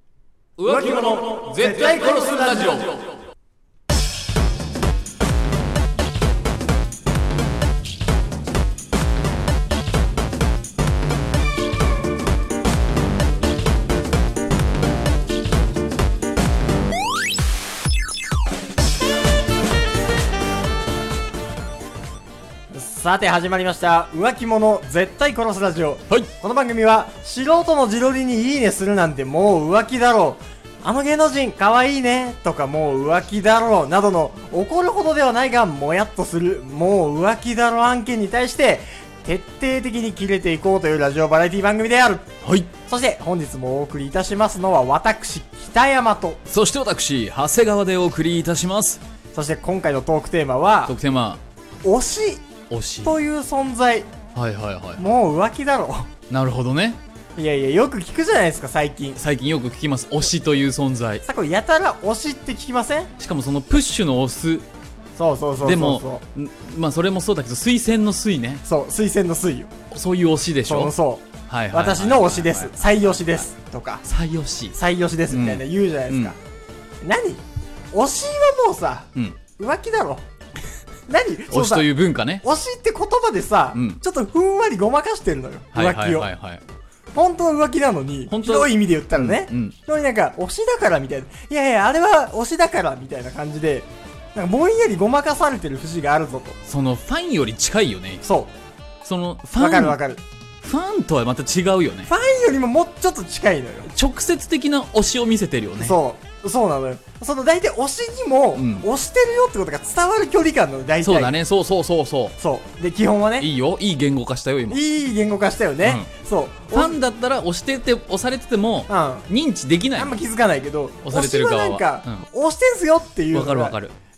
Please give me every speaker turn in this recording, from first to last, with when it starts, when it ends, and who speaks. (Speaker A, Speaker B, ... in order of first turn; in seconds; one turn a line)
Speaker A: 0.6-3.1
Speaker B: 0.6-2.9
Speaker B: 22.7-42.2
Speaker A: 42.4-42.7
Speaker B: 42.8-46.4
Speaker A: 46.5-49.0
Speaker B: 49.3-50.9
Speaker A: 50.9-51.4
Speaker B: 51.8-52.5
Speaker A: 52.7-53.1
Speaker B: 53.0-54.1
Speaker A: 54.3-55.0
Speaker B: 55.0-56.1
Speaker A: 56.3-57.0
Speaker B: 57.4-59.2
Speaker A: 59.1-61.2
Speaker B: 61.2-63.1
Speaker A: 63.2-64.7
Speaker B: 65.2-66.2
Speaker A: 65.6-68.6
Speaker B: 68.6-69.7
Speaker A: 69.9-70.9
Speaker B: 70.7-74.0
Speaker A: 71.5-73.5
Speaker A: 74.0-74.8
Speaker B: 74.7-76.4
Speaker A: 75.3-76.3
Speaker B: 77.0-80.2
Speaker B: 81.1-81.9
Speaker A: 81.5-82.4
Speaker B: 82.4-86.3
Speaker A: 83.7-84.0
Speaker A: 85.7-86.6
Speaker B: 87.1-96.6
Speaker A: 88.3-89.8
Speaker A: 96.6-98.2
Speaker B: 98.2-98.5
Speaker A: 99.0-100.0
Speaker B: 99.6-100.2
Speaker A: 100.6-102.1
Speaker B: 102.0-103.9
Speaker A: 103.9-106.0
Speaker B: 105.8-111.3
Speaker A: 108.5-108.9
Speaker A: 111.0-112.3
Speaker B: 112.4-113.5
Speaker A: 113.4-114.8
Speaker B: 114.7-117.0
Speaker A: 115.8-116.1
Speaker A: 116.7-120.2
Speaker B: 118.9-119.3
Speaker B: 120.0-123.8
Speaker A: 121.0-122.2
Speaker A: 123.3-123.9